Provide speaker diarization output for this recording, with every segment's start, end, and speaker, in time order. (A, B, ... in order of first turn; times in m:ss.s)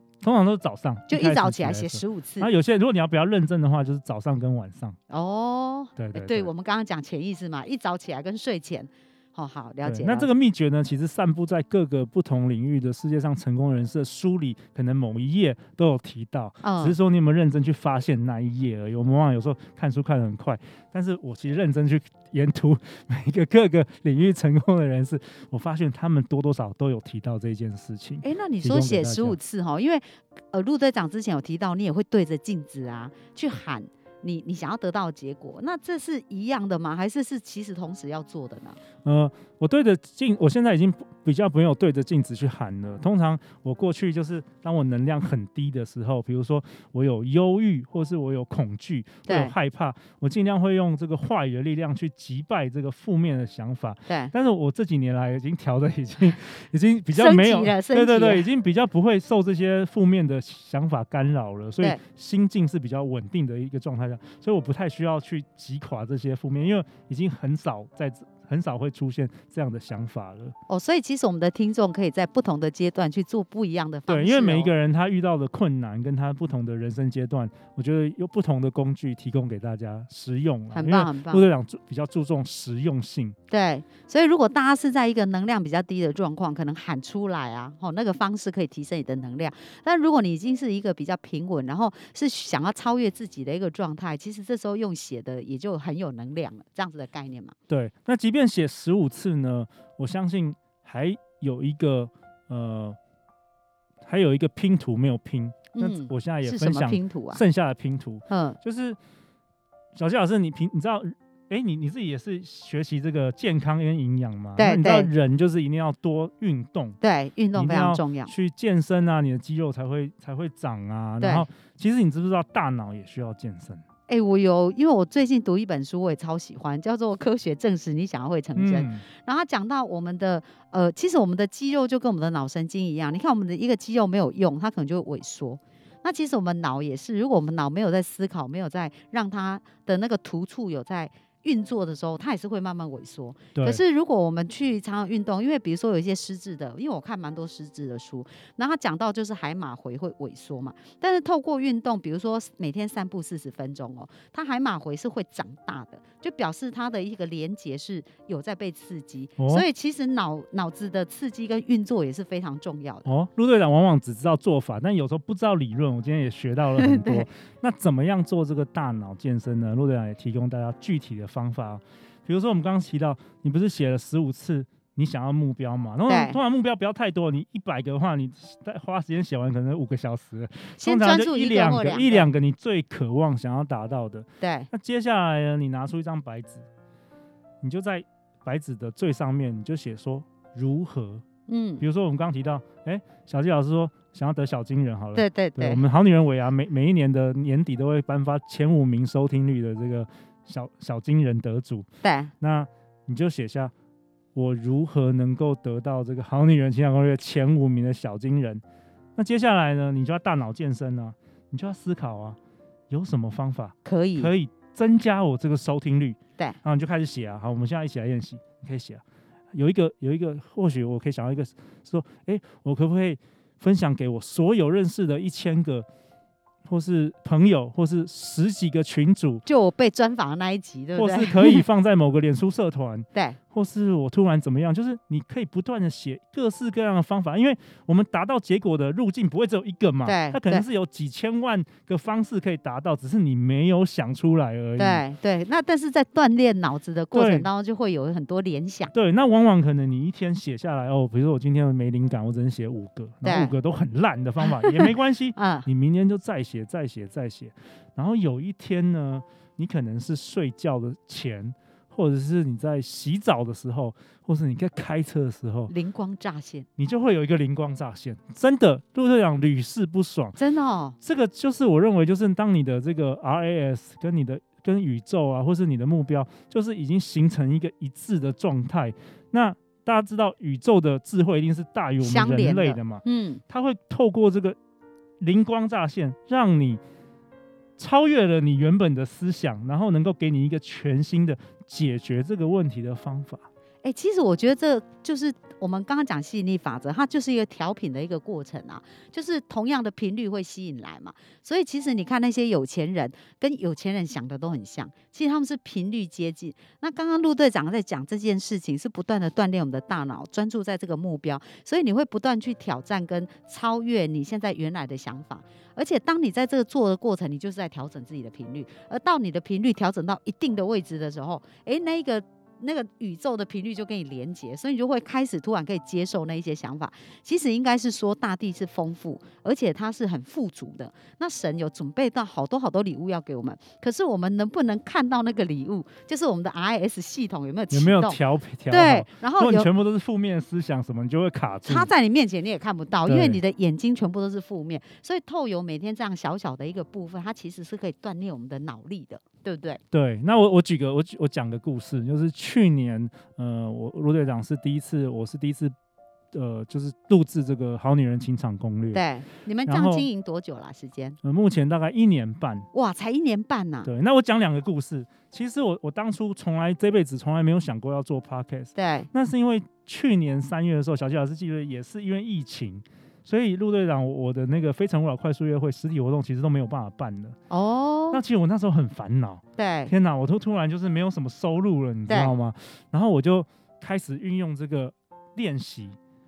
0:00.2-0:05.0 A
0:01.1-0:02.5 B
0:05.1-0:10.3 B
0:06.0-0:06.5 A
0:09.8-0:29.4 A
0:16.6-0:17.0 B
0:28.2-0:38.8 B
0:39.0-1:10.6 A
0:49.3-0:49.6 B
0:54.1-0:54.3 B
0:57.1-0:58.5 B
1:10.7-1:14.7 B
1:14.1-1:23.4 A
1:20.7-1:21.4 B
1:23.5-1:37.6 B
1:37.7-1:43.0 A
1:44.0-1:49.0 A
1:45.7-1:47.4 B
1:48.3-1:48.6 B
1:50.0-1:57.0 A
1:54.6-1:55.1 B
1:57.0-1:58.3 B
1:57.5-2:03.8 A
2:01.2-2:01.5 B
2:04.1-2:43.1 B
2:08.6-2:09.1 A
2:23.6-2:23.8 A
2:39.4-2:39.7 A
2:43.0-3:06.7 A
2:46.8-2:47.3 B
2:56.1-2:56.4 B
3:00.8-3:02.3 B
3:04.4-3:04.7 B
3:07.6-3:11.2 A
3:11.5-3:11.8 B
3:11.8-3:21.9 A
3:15.2-3:15.8 B
3:22.0-3:22.3 B
3:22.4-3:23.7 A
3:24.4-3:28.6 A
3:29.2-3:32.4 A
3:32.9-3:45.9 A
3:33.8-3:34.3 B
3:46.7-3:49.4 A
3:49.5-3:51.6 B
3:51.0-4:05.0 A
4:00.0-4:00.7 B
4:04.8-4:08.9 B
4:07.1-4:07.5 A
4:08.9-4:25.7 A
4:13.2-4:13.6 B
4:14.5-4:15.7 B
4:25.7-4:26.7 B
4:26.8-4:30.4 A
4:30.4-4:31.0 B
4:31.0-4:44.6 A
4:42.0-4:43.4 B
4:45.2-4:46.8 A
4:47.8-4:53.5 A
4:53.8-5:39.7 B
5:37.7-5:41.9 A
5:41.7-5:49.8 B
5:43.1-5:43.4 A
5:49.9-5:55.8 A
5:56.3-5:59.0 A
5:58.9-6:01.2 B
5:59.7-6:00.1 A
6:01.2-6:02.7 A
6:02.7-6:03.9 B
6:03.8-6:17.4 A
6:08.8-6:09.1 B
6:17.5-6:18.2 B
6:18.1-6:26.0 A
6:19.6-6:19.9 B
6:22.1-6:22.3 B